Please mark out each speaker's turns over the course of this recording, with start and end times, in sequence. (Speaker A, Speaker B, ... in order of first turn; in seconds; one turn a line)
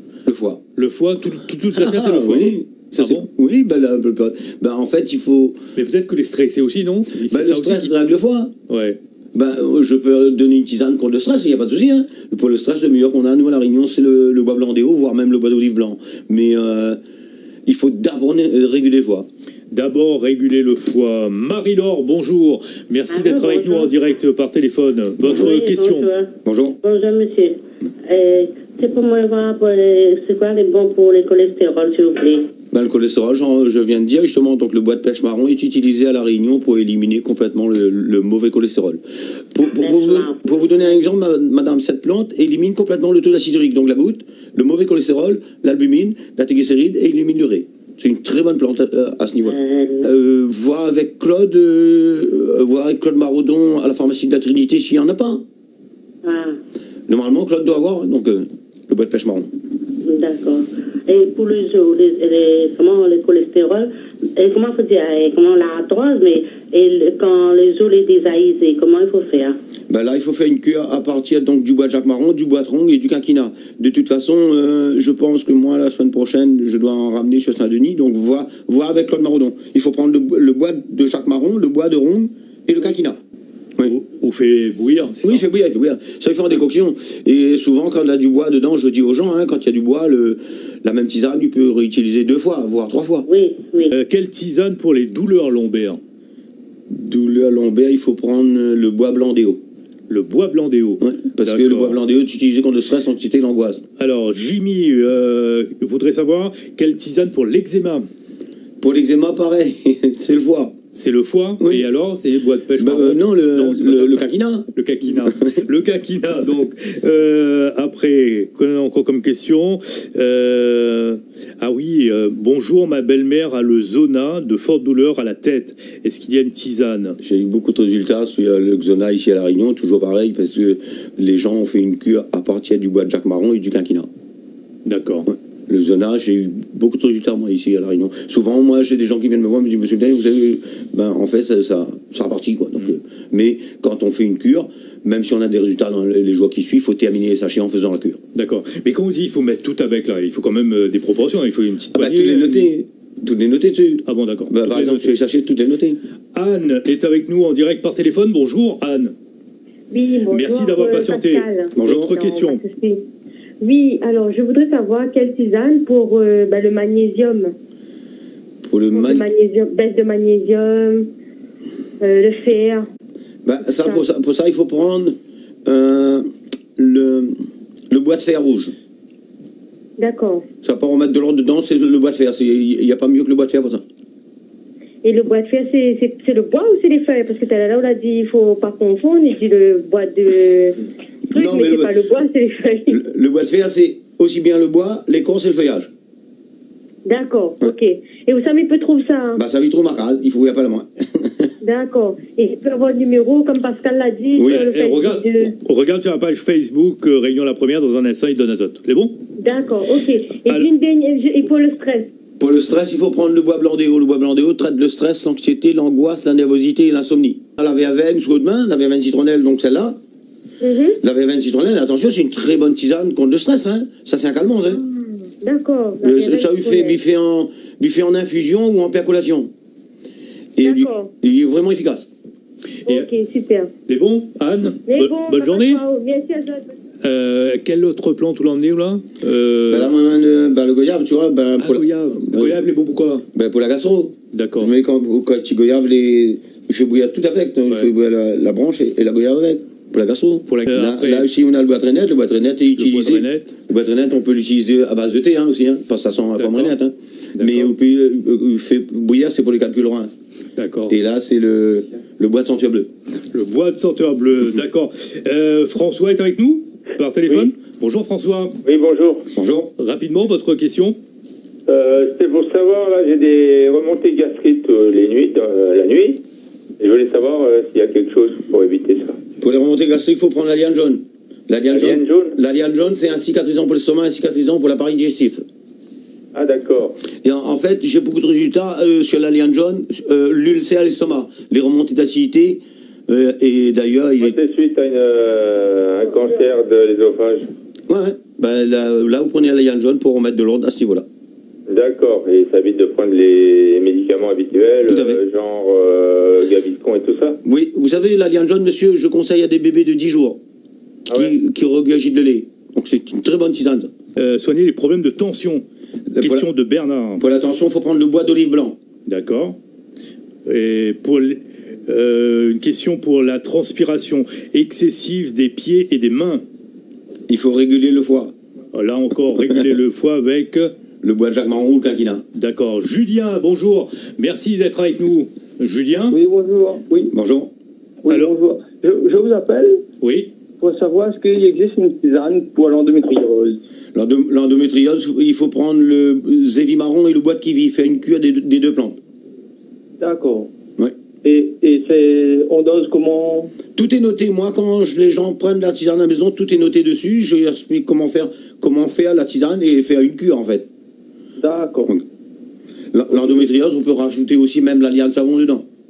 Speaker A: 0.2-0.6
Speaker B: 0.8-3.3
Speaker A: 1.7-5.6
Speaker B: 5.8-8.0
Speaker A: 7.3-8.5
Speaker B: 8.7-9.0
Speaker A: 9.3-17.0
Speaker A: 17.6-19.3
Speaker B: 19.7-26.1
Speaker C: 23.1-23.9
Speaker C: 25.2-26.3
Speaker A: 26.4-26.8
Speaker C: 26.8-32.5
Speaker A: 32.7-39.0
Speaker A: 39.5-55.4
Speaker C: 39.6-41.0
Speaker C: 49.4-50.1
Speaker C: 56.2-56.6
Speaker A: 57.1-59.5
Speaker C: 60.0-69.6
Speaker A: 69.9-83.2
Speaker B: 83.8-85.4
Speaker A: 85.2-93.3
Speaker C: 93.3-93.9
Speaker B: 93.9-96.0
Speaker A: 96.9-99.6
Speaker B: 100.1-102.0
Speaker A: 101.0-103.8
Speaker B: 104.0-108.1
Speaker A: 108.8-110.7
Speaker B: 110.9-127.2
Speaker A: 111.6-111.8
Speaker A: 112.8-114.7
Speaker A: 127.2-134.1
Speaker B: 134.8-135.3
Speaker A: 135.3-148.2
Speaker B: 148.3-152.7
Speaker A: 151.9-156.0
Speaker B: 154.1-155.1
Speaker B: 156.3-159.1
Speaker D: 159.9-163.0
Speaker B: 160.3-162.6
Speaker A: 161.7-162.1
Speaker D: 163.6-167.5
Speaker A: 168.6-169.3
Speaker D: 168.9-171.1
Speaker D: 172.0-172.8
Speaker A: 173.4-176.2
Speaker D: 173.8-174.0
Speaker A: 176.8-177.3
Speaker A: 177.9-178.7
Speaker D: 180.0-180.4
Speaker A: 180.6-183.8
Speaker D: 185.0-190.8
Speaker A: 191.3-191.9
Speaker D: 191.3-193.0
Speaker A: 192.9-195.9
Speaker D: 197.0-199.4
Speaker A: 199.3-201.5
Speaker D: 201.6-205.5
Speaker A: 204.3-204.7
Speaker B: 204.4-209.1
Speaker D: 209.4-212.1
Speaker A: 212.4-220.0
Speaker D: 220.6-221.0
Speaker A: 221.0-224.8
Speaker D: 224.7-227.0
Speaker A: 226.0-229.5
Speaker A: 230.6-232.1
Speaker D: 230.6-231.1
Speaker D: 232.9-233.7
Speaker B: 233.9-235.8
Speaker D: 234.9-236.7
Speaker B: 237.0-239.9
Speaker A: 239.7-242.6
Speaker B: 241.6-243.2
Speaker A: 243.3-260.1
Speaker B: 244.3-244.7
Speaker B: 250.5-251.3
Speaker B: 252.8-253.5
Speaker B: 256.4-256.8
Speaker B: 257.4-257.7
Speaker B: 260.6-260.9
Speaker A: 260.9-262.9
Speaker B: 263.3-268.6
Speaker E: 268.6-269.3
Speaker A: 269.3-269.7
Speaker B: 269.8-271.0
Speaker E: 271.7-276.2
Speaker E: 276.8-279.2
Speaker A: 279.4-285.4
Speaker E: 281.7-282.4
Speaker E: 286.3-287.0
Speaker A: 287.2-294.4
Speaker E: 294.2-297.4
Speaker A: 297.9-301.0
Speaker E: 301.7-307.4
Speaker A: 304.8-305.2
Speaker A: 307.4-310.4
Speaker E: 311.1-311.3
Speaker A: 311.1-313.9
Speaker B: 314.1-315.6
Speaker A: 316.1-316.5
Speaker B: 316.2-317.2
Speaker A: 317.2-318.8
Speaker B: 319.1-319.6
Speaker B: 320.4-326.4
Speaker A: 327.3-328.3
Speaker B: 328.7-330.7
Speaker A: 331.0-332.2
Speaker B: 332.4-336.2
Speaker F: 336.1-337.1
Speaker A: 337.1-337.5
Speaker F: 338.0-339.8
Speaker B: 338.1-338.3
Speaker B: 340.0-340.3
Speaker F: 340.6-343.6
Speaker A: 343.9-349.0
Speaker F: 350.0-350.5
Speaker F: 351.2-353.5
Speaker A: 353.8-360.7
Speaker F: 361.4-361.9
Speaker A: 362.9-365.6